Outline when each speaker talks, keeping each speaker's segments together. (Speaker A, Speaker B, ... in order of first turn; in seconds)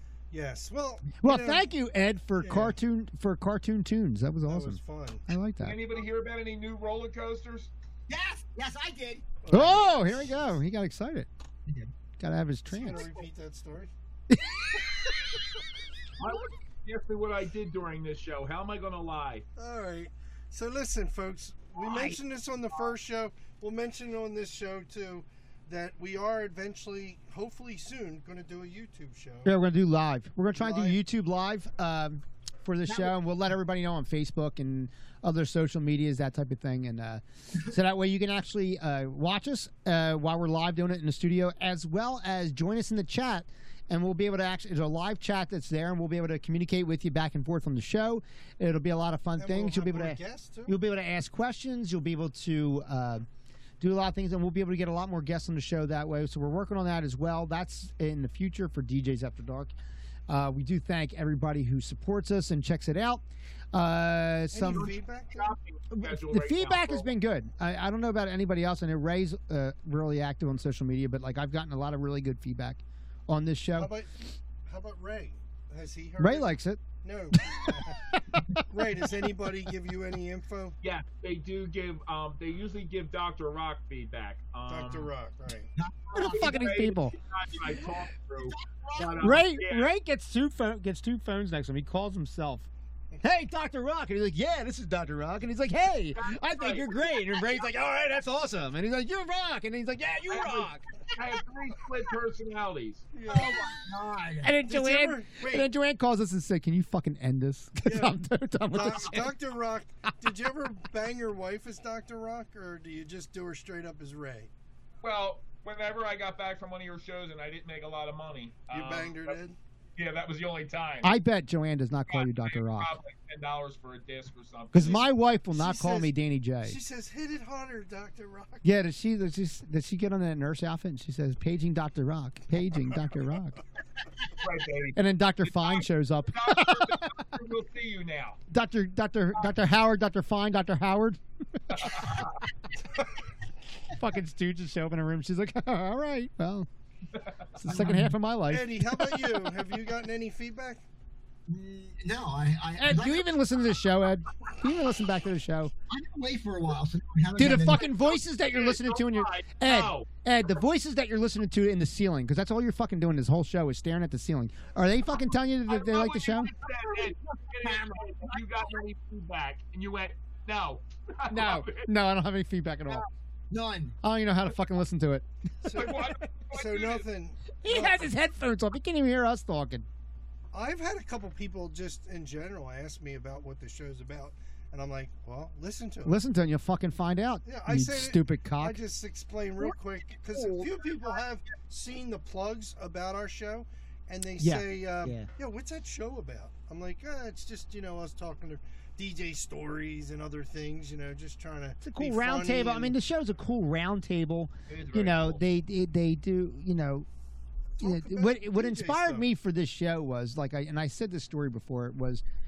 Speaker A: 0.3-1.7, 2.4-2.7, 4.5-5.2, 9.4-9.9, 12.7-13.9, 19.6-29.5, 30.5-31.0, 49.4-50.8, 64.5-65.5, 73.7-78.2, 78.7-80.8, 84.7-85.7, 103.1-103.9, 104.6-105.7, 107.8-108.2, 108.7-114.5, 118.7-119.6, 124.7-128.7, 148.5-150.8, 175.6-178.1, 180.5-186.2, 187.4-202.9, 207.8-209.3
Speaker B: 1.2-5.8, 9.5-11.3, 12.2-13.1, 14.3-14.6, 21.8-22.2, 29.4-53.2, 53.8-59.7, 60.3-64.9, 65.9-73.9, 76.2-76.8, 77.3-78.6, 86.1-87.1, 89.2-92.7, 93.2-100.8, 104.4-109.4, 121.0-122.9, 124.7-126.8, 128.6-133.6, 134.9-137.2, 138.5-142.2, 143.9-146.7, 147.6-149.4, 152.8-155.7, 157.4-166.5, 171.3-173.1, 174.0-175.2, 175.8-176.1, 177.6-179.9, 186.0-188.8, 194.4-195.3, 201.8-207.1, 207.8-212.2
Speaker C: 5.6-7.7, 16.2-19.4, 64.7-67.1, 80.8-85.1, 86.3-89.9, 96.1-96.9, 100.3-103.5, 115.0-119.4, 120.0-121.1, 122.1-125.0, 134.4-138.4, 141.7-142.4, 157.9-160.1, 165.7-171.9, 175.7-177.1, 204.7-205.4
Speaker D: 8.1-10.3, 11.7-11.9, 32.9-33.2, 85.8-86.8, 87.6-89.4, 103.3-104.5, 147.7-148.1, 151.5-153.4, 155.9-157.9, 166.9-168.7, 173.5-173.9, 190.3-190.9